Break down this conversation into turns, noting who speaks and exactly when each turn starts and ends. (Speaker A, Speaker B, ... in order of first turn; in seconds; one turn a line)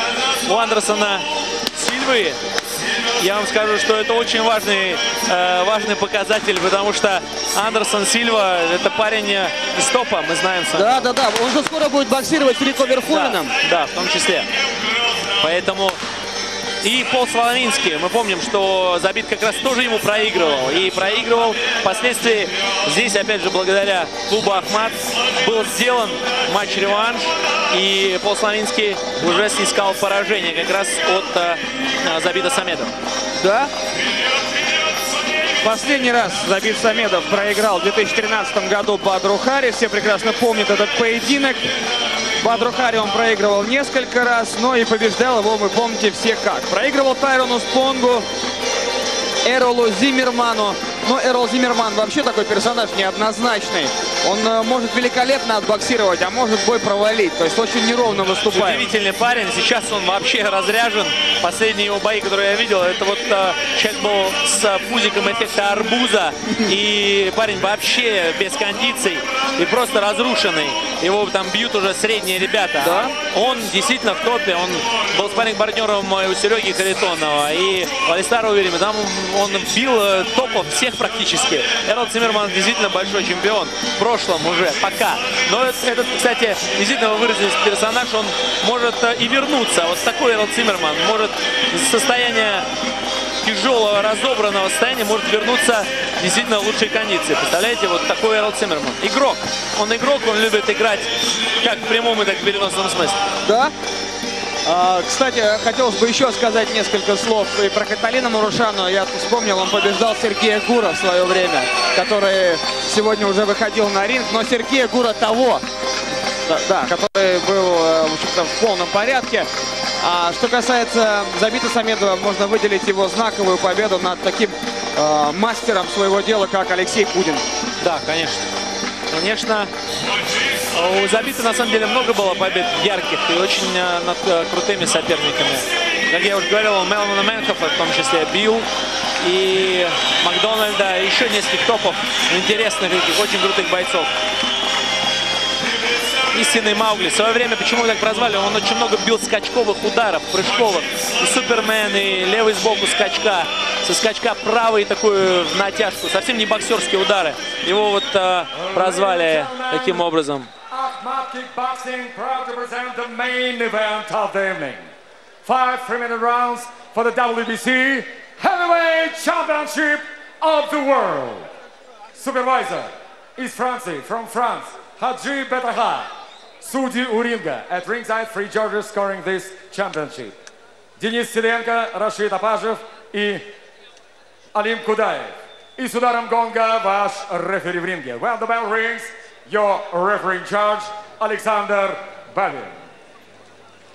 Speaker A: 0.4-2.4
Speaker A: 3.2-11.1
Speaker B: 10.7-13.5
Speaker A: 13.1-14.5
Speaker A: 15.4-16.0
Speaker A: 16.8-32.9
Speaker B: 33.4-33.7
Speaker B: 35.6-41.7
Speaker B: 42.4-48.3
Speaker B: 49.4-58.9
Speaker A: 58.5-92.7
Speaker B: 72.8-73.1
Speaker A: 93.4-103.2
Speaker B: 103.4-103.7
Speaker B: 104.7-115.6
Speaker B: 116.5-127.4
Speaker A: 127.8-128.4
Speaker A: 129.1-129.7
Speaker A: 130.7-138.7
Speaker A: 139.2-144.1
Speaker A: 146.3-160.5
Speaker C: 158.5-160.1
Speaker C: 160.7-164.8
Speaker C: 165.4-171.5
Speaker C: 172.1-180.3
Speaker C: 181.0-183.5
Speaker C: 184.5-192.8